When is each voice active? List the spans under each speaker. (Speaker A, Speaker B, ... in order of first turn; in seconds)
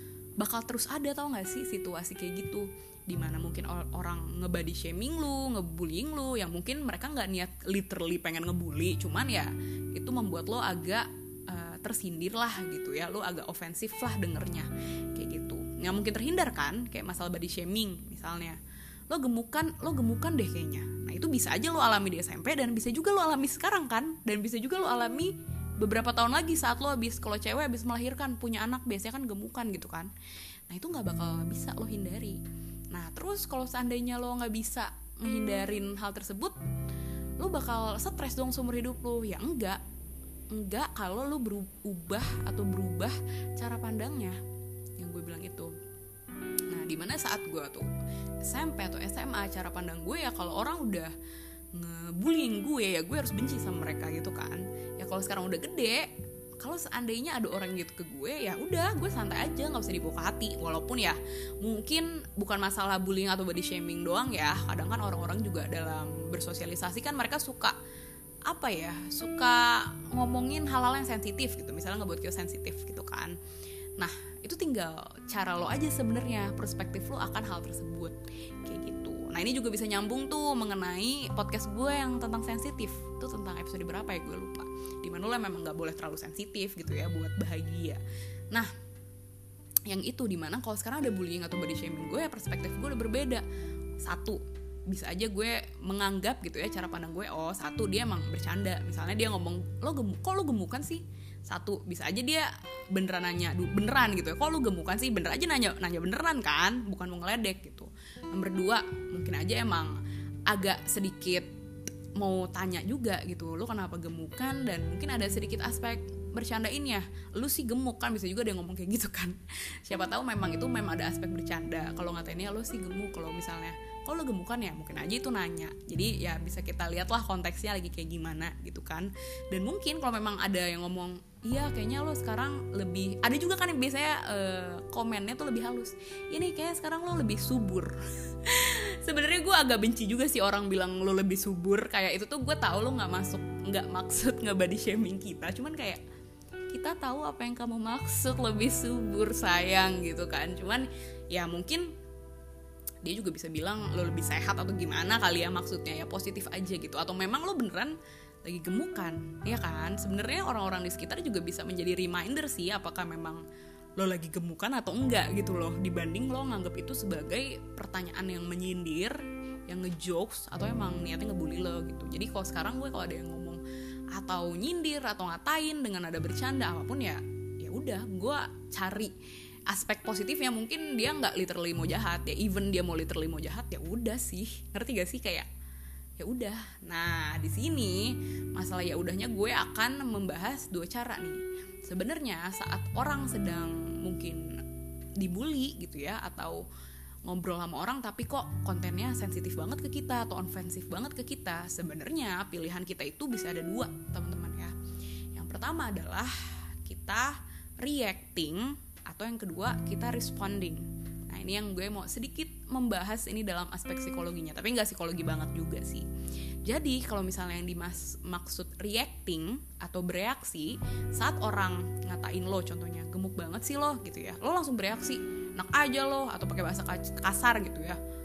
Speaker A: 0.4-18.6, 19.1-30.1, 30.7-32.4, 32.9-36.6, 37.4-39.8, 40.5-44.4, 45.0-45.7, 46.7-47.9, 48.5-51.1, 51.7-56.1, 56.6-67.8, 68.5-73.3, 74.0-88.0, 89.9-93.4, 94.0-111.5, 112.2-146.0, 146.7-151.9, 153.0-163.4, 164.0-173.6, 174.1-179.1, 179.7-185.5, 186.2-194.6, 195.2-196.7, 197.2-204.8, 205.3-216.1, 216.6-228.0